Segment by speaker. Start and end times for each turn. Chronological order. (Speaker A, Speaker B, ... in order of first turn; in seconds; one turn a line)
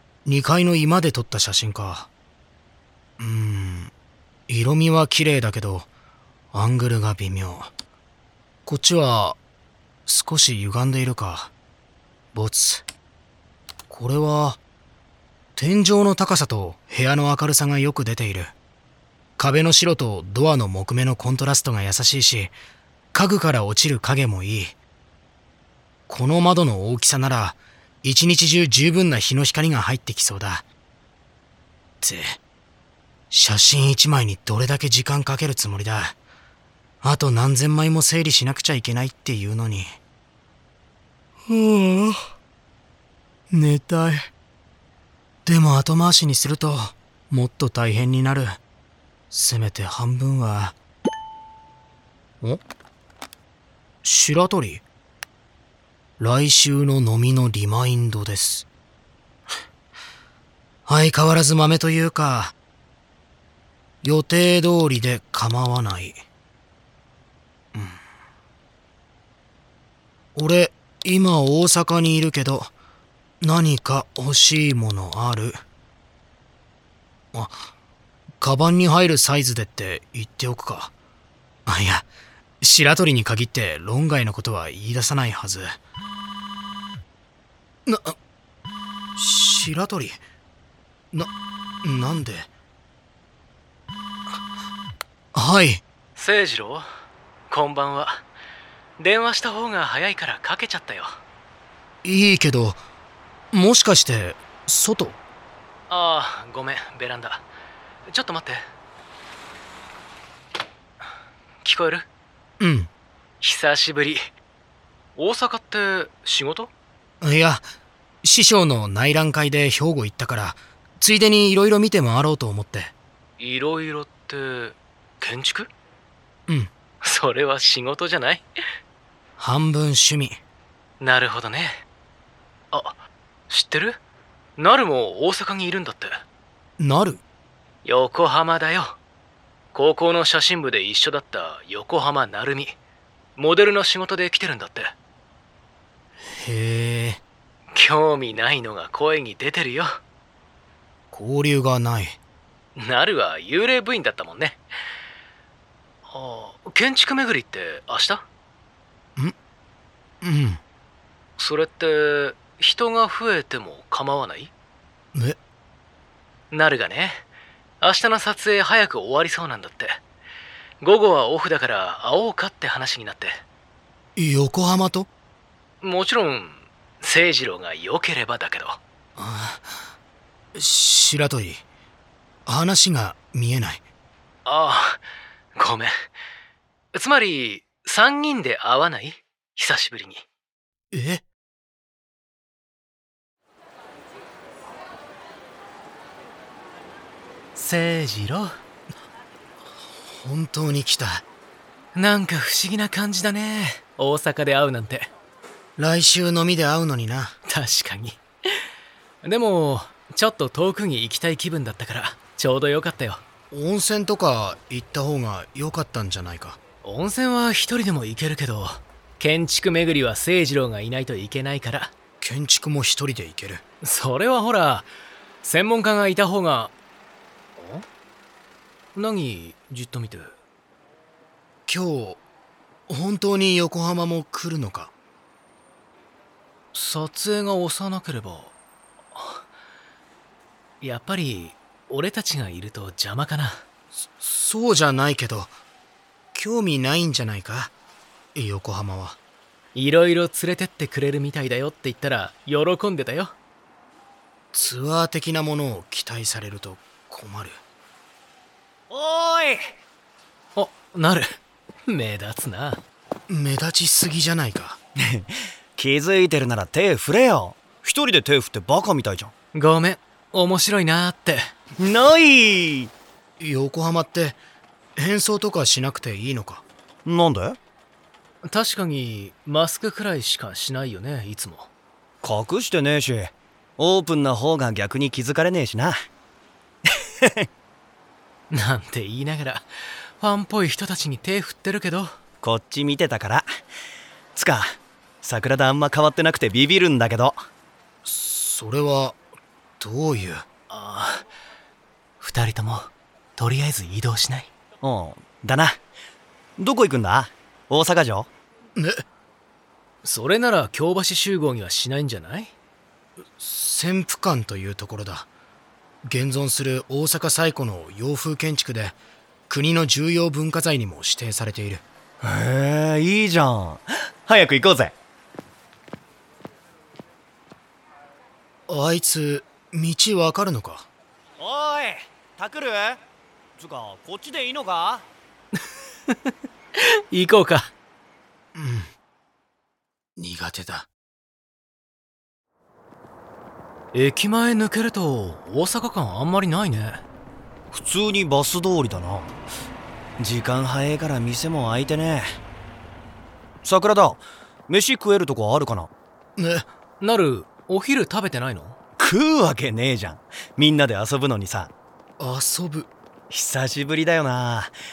Speaker A: 0.2-2.1
Speaker A: 3.2-3.9
Speaker A: 4.5-5.9
Speaker A: 6.5-7.7
Speaker A: 8.7-9.4
Speaker A: 10.1-11.5
Speaker A: 12.3-12.8
Speaker A: 13.9-14.6
Speaker A: 15.6-18.5
Speaker A: 19.4-22.5
Speaker A: 23.1-24.8
Speaker A: 26.1-30.6
Speaker A: 32.0-32.4
Speaker A: 33.3-36.1
Speaker A: 37.0-40.0
Speaker A: 41.5-42.3
Speaker A: 43.5-44.3
Speaker A: 45.5-48.6
Speaker A: 49.3-50.8
Speaker A: 54.0-54.8
Speaker A: 56.2-58.6
Speaker A: 60.9-62.5
Speaker A: 64.0-66.2
Speaker A: 67.7-68.0
Speaker A: 70.3-72.7
Speaker A: 73.4-75.6
Speaker A: 77.3-77.7
Speaker A: 78.4-80.9
Speaker A: 81.7-82.1
Speaker A: 82.6-85.8
Speaker A: 87.8-88.2
Speaker A: 89.2-90.2
Speaker A: 91.8-92.5
Speaker A: 95.3-95.8
Speaker B: 96.2-96.8
Speaker B: 97.5-98.2
Speaker B: 99.0-101.2
Speaker A: 102.0-102.8
Speaker A: 103.5-105.2
Speaker B: 105.9-107.4
Speaker B: 108.1-108.6
Speaker B: 111.6-112.1
Speaker A: 112.6-112.9
Speaker B: 113.4-114.3
Speaker B: 115.2-116.7
Speaker A: 117.2-117.7
Speaker A: 118.2-122.9
Speaker B: 123.4-125.7
Speaker B: 127.0-128.5
Speaker A: 129.4-130.4
Speaker B: 131.0-131.8
Speaker B: 133.5-134.0
Speaker B: 134.6-136.2
Speaker A: 136.8-137.2
Speaker B: 137.8-139.0
Speaker B: 139.7-142.8
Speaker B: 143.4-144.9
Speaker A: 146.3-147.2
Speaker B: 147.7-150.0
Speaker A: 151.1-152.2
Speaker B: 152.8-154.6
Speaker B: 156.1-158.2
Speaker A: 160.2-160.6
Speaker B: 161.4-164.5
Speaker B: 166.5-167.2
Speaker B: 167.8-170.0
Speaker B: 170.8-173.4
Speaker A: 174.2-175.1
Speaker B: 175.8-178.8
Speaker A: 179.2-179.9
Speaker A: 180.5-181.6
Speaker A: 182.4-183.8
Speaker B: 184.4-185.0
Speaker B: 185.6-185.9
Speaker B: 186.9-190.2
Speaker A: 190.9-191.2
Speaker B: 197.5-198.6
Speaker A: 200.0-201.2
Speaker B: 201.9-205.1
Speaker A: 205.8-207.3
Speaker B: 207.5-208.2
Speaker B: 209.2-213.2
Speaker A: 213.5-216.6
Speaker B: 216.8-221.9
Speaker A: 222.2-223.6
Speaker B: 223.8-224.9
Speaker B: 225.4-226.7
Speaker B: 227.6-227.8
Speaker B: 228.9-230.3
Speaker A: 231.7-232.2
Speaker A: 232.9-234.9
Speaker B: 236.7-238.5
Speaker B: 239.1-239.4
Speaker B: 240.8-243.6
Speaker A: 243.9-245.5
Speaker A: 246.3-247.7
Speaker A: 248.3-249.2
Speaker B: 249.7-253.3
Speaker A: 254.5-257.6
Speaker C: 258.9-259.8
Speaker B: 260.6-262.8
Speaker A: 263.3-264.8
Speaker C: 265.0-269.3
Speaker B: 269.5-271.5
Speaker C: 271.8-272.9
Speaker A: 273.4-274.4
Speaker A: 275.0-276.6
Speaker C: 277.0-277.6
Speaker B: 278.4-281.7
Speaker C: 282.2-286.0
Speaker C: 287.2-287.5
Speaker B: 288.5-289.7
Speaker B: 290.2-292.1
Speaker C: 292.4-293.4
Speaker C: 294.3-297.4
Speaker A: 298.0-299.2
Speaker A: 299.8-300.4
Speaker B: 300.7-301.2
Speaker B: 302.2-304.5
Speaker C: 304.8-305.8
Speaker C: 306.6-308.3
Speaker A: 308.8-309.0
Speaker B: 310.0-312.5
Speaker A: 313.4-315.3
Speaker A: 316.0-319.0
Speaker A: 319.5-321.8
Speaker C: 322.2-324.9
Speaker A: 328.7-330.9
Speaker C: 331.4-333.0
Speaker C: 333.6-335.1
Speaker B: 336.8-337.7
Speaker A: 338.5-338.9
Speaker A: 340.2-340.9
Speaker B: 343.9-347.0
Speaker C: 347.7-349.3
Speaker C: 350.2-352.4
Speaker C: 353.6-355.9
Speaker A: 356.4-356.7
Speaker B: 357.0-358.8
Speaker C: 359.0-361.7
Speaker A: 362.2-362.9
Speaker C: 363.3-364.7